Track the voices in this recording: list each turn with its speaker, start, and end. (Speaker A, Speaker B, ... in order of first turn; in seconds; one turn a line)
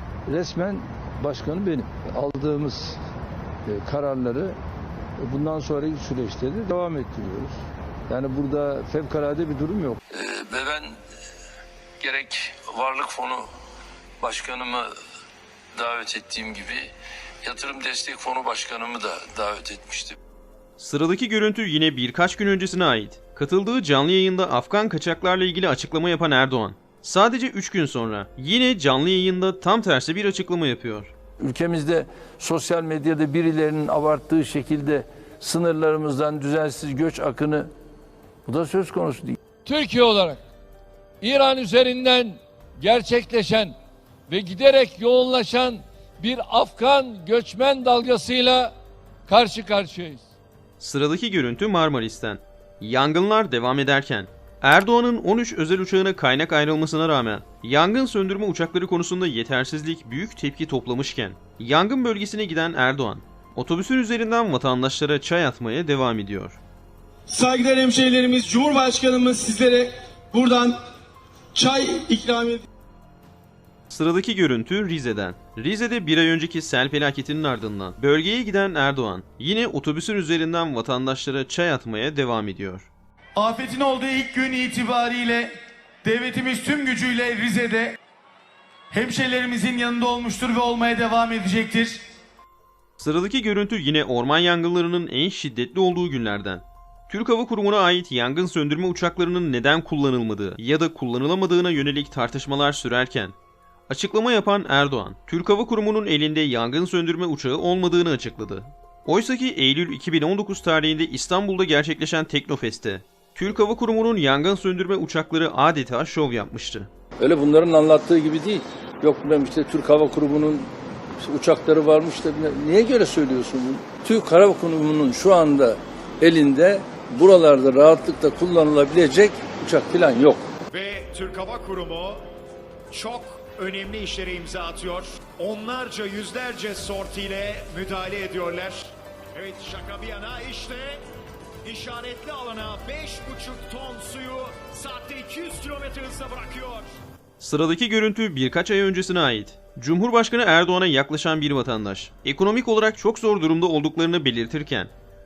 Speaker A: 0.3-3.0
Speaker A: 3.7-4.5
Speaker A: 5.2-7.6
Speaker A: 8.1-10.0
Speaker B: 10.2-10.9
Speaker B: 12.0-13.4
Speaker B: 14.2-14.8
Speaker B: 15.8-16.8
Speaker B: 17.5-20.1
Speaker C: 20.8-31.1
Speaker A: 31.4-37.7
Speaker A: 38.5-39.4
Speaker D: 39.6-40.4
Speaker D: 41.2-43.8
Speaker D: 44.3-48.7
Speaker D: 49.3-50.2
Speaker C: 50.8-66.6
Speaker E: 67.3-70.8
Speaker E: 71.5-72.6
Speaker C: 73.9-82.9
Speaker F: 83.4-85.5
Speaker F: 86.0-88.0
Speaker F: 88.9-92.0
Speaker C: 93.0-103.3
Speaker C: 103.9-116.9
Speaker A: 117.2-130.4
Speaker G: 130.7-132.2
Speaker G: 132.9-140.9
Speaker G: 141.7-146.8
Speaker C: 147.4-154.9